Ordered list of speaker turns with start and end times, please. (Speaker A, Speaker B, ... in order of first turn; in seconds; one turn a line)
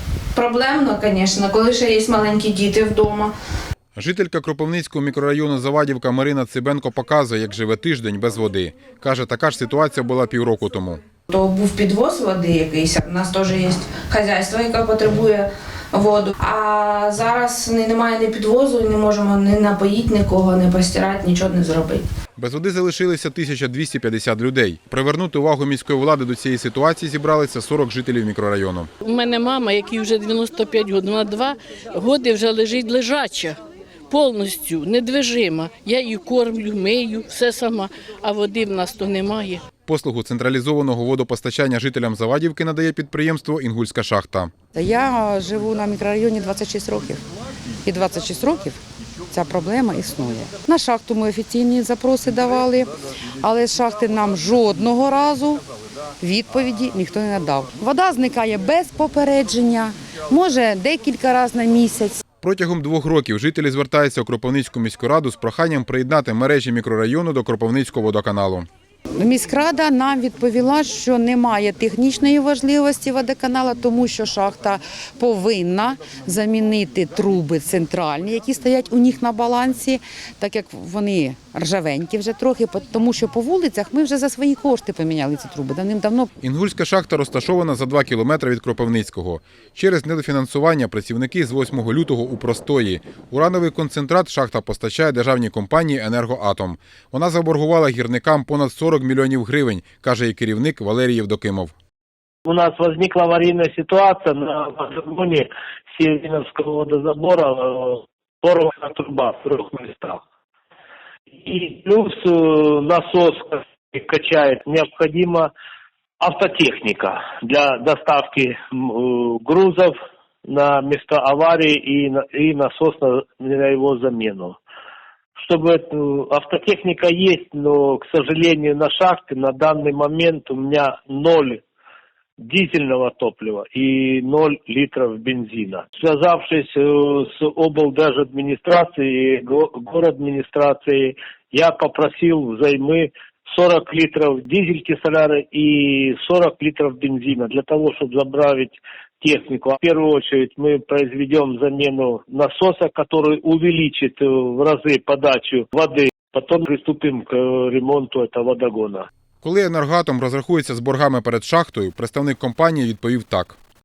Speaker A: 0.3-3.3
Speaker B: 3.9-11.0
Speaker A: 11.3-22.0
Speaker B: 22.4-28.9
Speaker C: 29.0-33.6
Speaker C: 34.1-39.6
Speaker B: 39.9-44.5
Speaker D: 44.7-47.2
Speaker D: 47.8-48.8
Speaker D: 49.3-55.6
Speaker D: 56.2-62.2
Speaker B: 62.4-68.7
Speaker D: 69.2-86.3
Speaker B: 86.4-101.7
Speaker E: 102.5-110.2
Speaker E: 111.4-115.5
Speaker E: 116.2-119.9
Speaker E: 120.5-124.6
Speaker E: 125.4-131.6
Speaker E: 132.4-159.1
Speaker B: 159.4-163.6